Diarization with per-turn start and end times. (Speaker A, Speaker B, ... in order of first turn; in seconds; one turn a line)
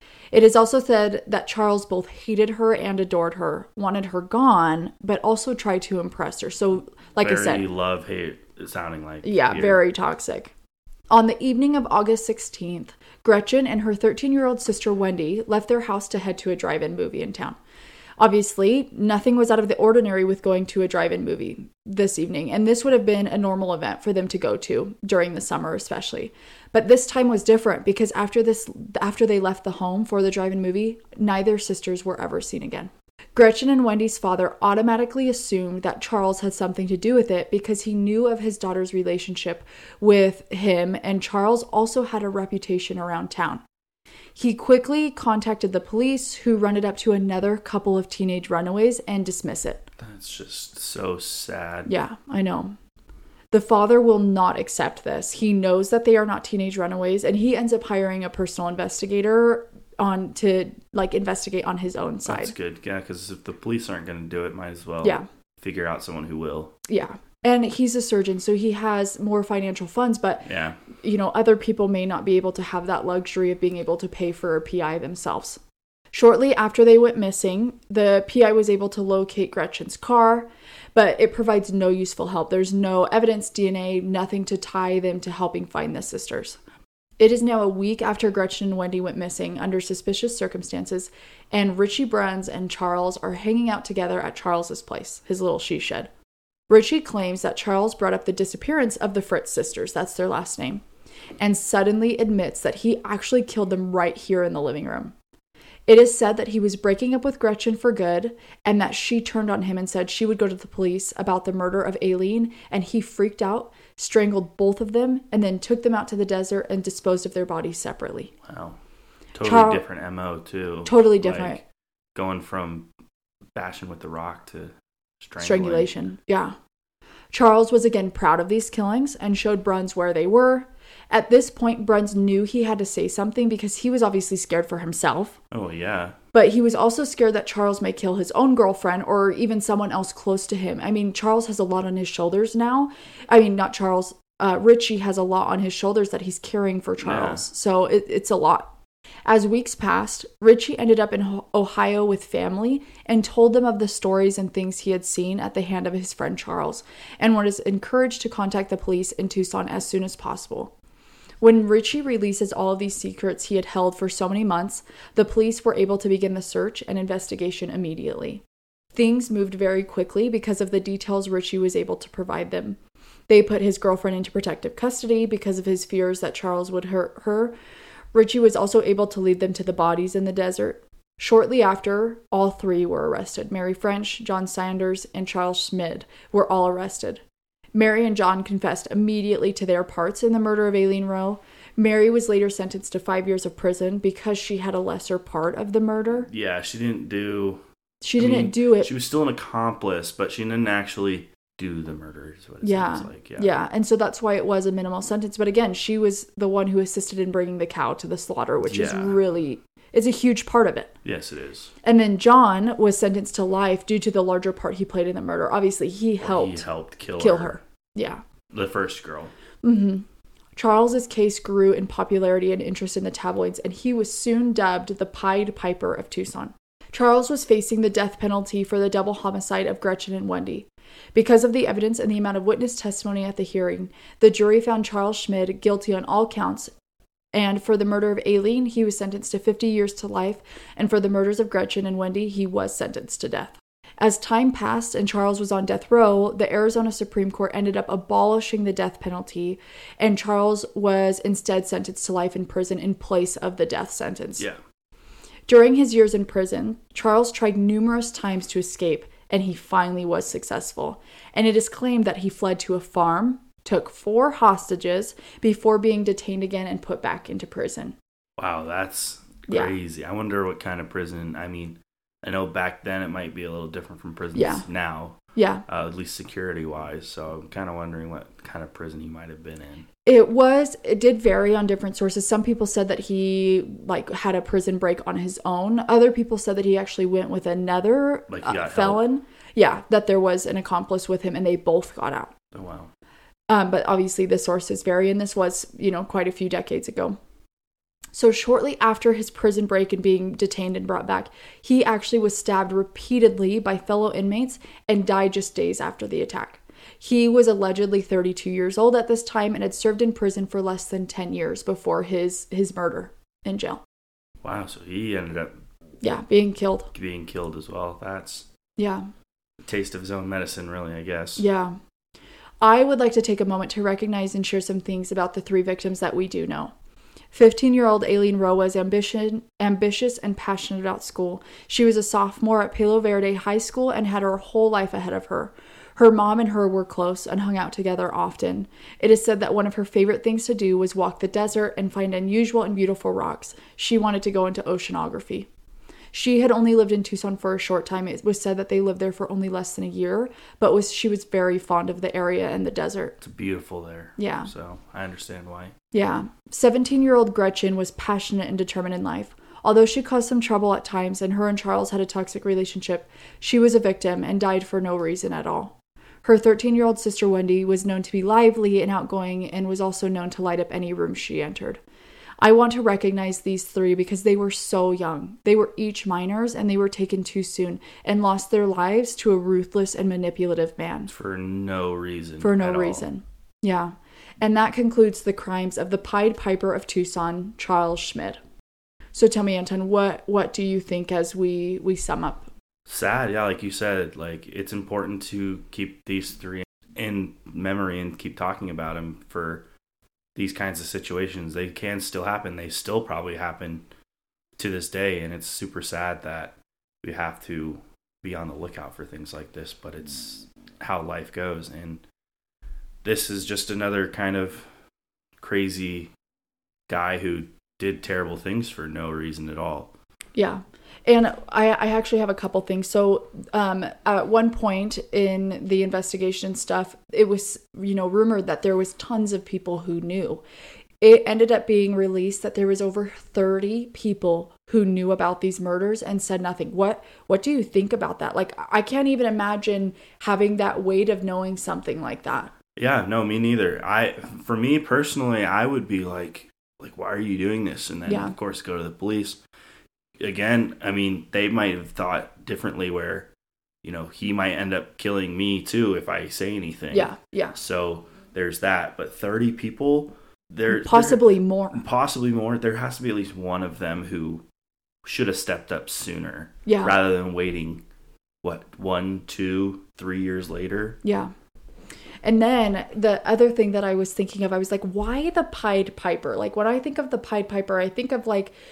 Speaker A: 0.3-7.6
Speaker B: 7.2-9.8
Speaker A: 9.2-10.5
Speaker A: 11.1-17.6
Speaker A: 18.2-43.6
Speaker A: 44.4-49.9
Speaker B: 50.0-51.9
Speaker A: 51.9-52.8
Speaker A: 53.5-62.5
Speaker B: 62.2-66.7
Speaker A: 66.8-75.6
Speaker B: 70.5-70.8
Speaker A: 76.1-86.6
Speaker A: 87.2-96.1
Speaker A: 96.7-100.8
Speaker A: 101.4-105.1
Speaker A: 105.9-118.3
Speaker B: 118.4-118.8
Speaker B: 119.3-121.6
Speaker A: 119.4-119.8
Speaker A: 120.8-121.6
Speaker B: 122.1-122.9
Speaker B: 123.5-125.9
Speaker A: 125.4-126.5
Speaker A: 127.3-135.4
Speaker B: 135.5-136.2
Speaker A: 136.3-148.7
Speaker B: 147.0-147.4
Speaker A: 149.2-160.7
Speaker A: 161.4-168.4
Speaker A: 168.9-172.8
Speaker A: 173.3-177.5
Speaker A: 178.1-187.2
Speaker A: 187.7-196.3
Speaker B: 196.3-197.6
Speaker A: 198.0-198.9
Speaker B: 198.2-203.5
Speaker A: 202.6-210.9
Speaker B: 208.6-209.2
Speaker B: 211.0-211.7
Speaker A: 211.8-216.6
Speaker B: 216.2-217.6
Speaker A: 217.2-218.2
Speaker B: 218.5-219.3
Speaker A: 219.6-220.0
Speaker A: 220.6-236.7
Speaker A: 237.3-254.4
Speaker A: 255.5-268.0
Speaker B: 268.4-279.9
Speaker A: 269.5-269.7
Speaker A: 274.3-274.6
Speaker A: 275.3-275.6
Speaker A: 280.0-292.3
Speaker B: 288.3-289.0
Speaker B: 292.5-292.9
Speaker A: 293.5-297.2
Speaker A: 298.1-313.8
Speaker B: 314.4-315.5
Speaker A: 316.0-316.9
Speaker B: 316.9-318.5
Speaker A: 318.8-319.1
Speaker B: 319.6-321.4
Speaker A: 321.4-321.8
Speaker A: 322.6-326.7
Speaker A: 327.3-345.5
Speaker A: 346.1-353.2
Speaker B: 353.2-355.7
Speaker A: 354.2-354.5
Speaker A: 355.9-371.8
Speaker A: 372.4-381.1
Speaker B: 381.1-383.1
Speaker A: 382.4-388.4
Speaker A: 389.1-392.5
Speaker B: 392.9-399.6
Speaker B: 400.3-403.8
Speaker B: 404.6-412.0
Speaker B: 413.0-414.7
Speaker B: 415.4-416.1
Speaker B: 416.9-419.9
Speaker A: 420.3-430.4
Speaker A: 431.0-442.5
Speaker B: 442.8-449.4
Speaker A: 448.1-448.3
Speaker B: 450.2-453.3
Speaker B: 453.8-464.4
Speaker A: 456.9-457.6
Speaker A: 460.7-461.8
Speaker B: 465.0-467.8
Speaker A: 466.6-466.9
Speaker B: 468.4-471.0
Speaker A: 471.0-471.3
Speaker A: 472.2-478.5